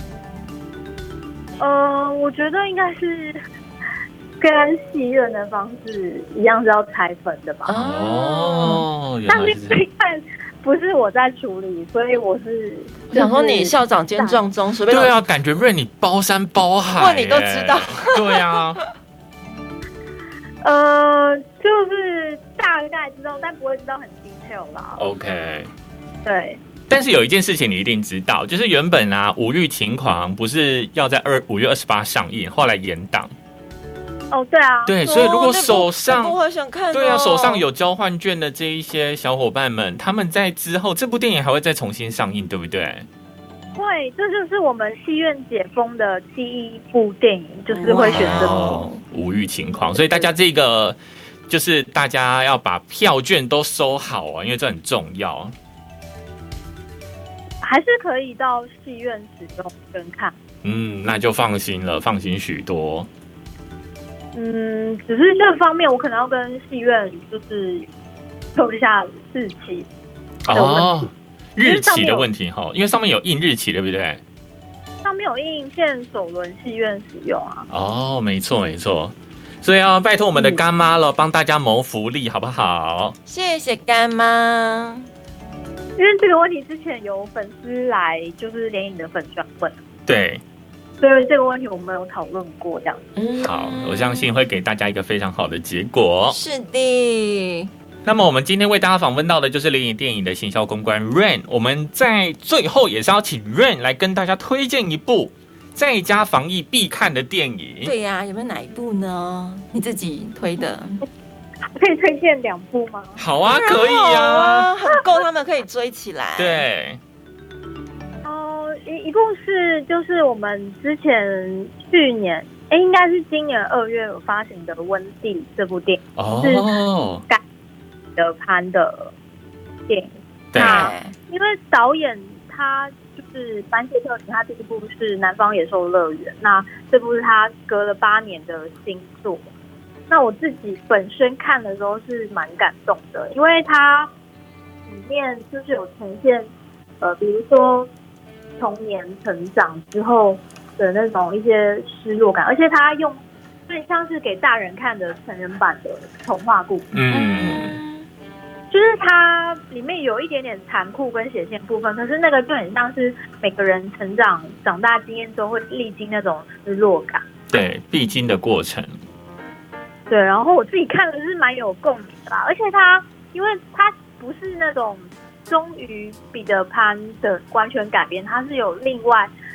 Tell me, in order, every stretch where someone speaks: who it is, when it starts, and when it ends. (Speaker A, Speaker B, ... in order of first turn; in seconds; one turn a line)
Speaker A: 1.6-3.4
Speaker A: 4.4-7.7
Speaker B: 7.7-8.8
Speaker C: 7.7-9.8
Speaker A: 9.3-14.4
Speaker B: 13.1-15.1
Speaker C: 14.9-18.8
Speaker B: 16.9-18.6
Speaker A: 20.6-25.0
Speaker C: 25.0-25.7
Speaker A: 26.2-26.6
Speaker C: 26.9-33.3
Speaker A: 34.3-35.0
Speaker C: 34.9-36.4
Speaker B: 35.0-37.6
Speaker C: 36.9-43.1
Speaker A: 43.7-48.8
Speaker B: 47.7-49.0
Speaker C: 48.1-55.5
Speaker A: 57.6-60.3
Speaker C: 60.6-63.1
Speaker A: 64.3-67.9
Speaker A: 68.5-69.9
Speaker C: 70.4-74.2
Speaker A: 70.5-71.1
Speaker A: 71.6-72.3
Speaker A: 75.0-77.7
Speaker C: 77.7-83.2
Speaker A: 80.3-80.6
Speaker B: 83.3-85.1
Speaker A: 86.0-89.8
Speaker C: 90.1-90.4
Speaker A: 91.0-93.0
Speaker B: 93.2-94.3
Speaker C: 93.4-96.4
Speaker B: 96.3-97.7
Speaker C: 98.0-107.9
Speaker B: 107.8-111.0
Speaker A: 111.7-113.2
Speaker C: 113.2-114.7
Speaker B: 113.4-116.6
Speaker C: 116.4-117.0
Speaker A: 118.2-126.7
Speaker C: 126.2-127.2
Speaker A: 128.2-129.1
Speaker A: 129.9-139.4
Speaker C: 130.5-130.9
Speaker B: 130.6-131.1
Speaker A: 140.1-144.1
Speaker A: 144.9-147.9
Speaker A: 148.6-156.9
Speaker C: 156.9-157.8
Speaker B: 157.1-158.1
Speaker A: 158.7-167.2
Speaker C: 167.5-169.0
Speaker A: 170.1-179.3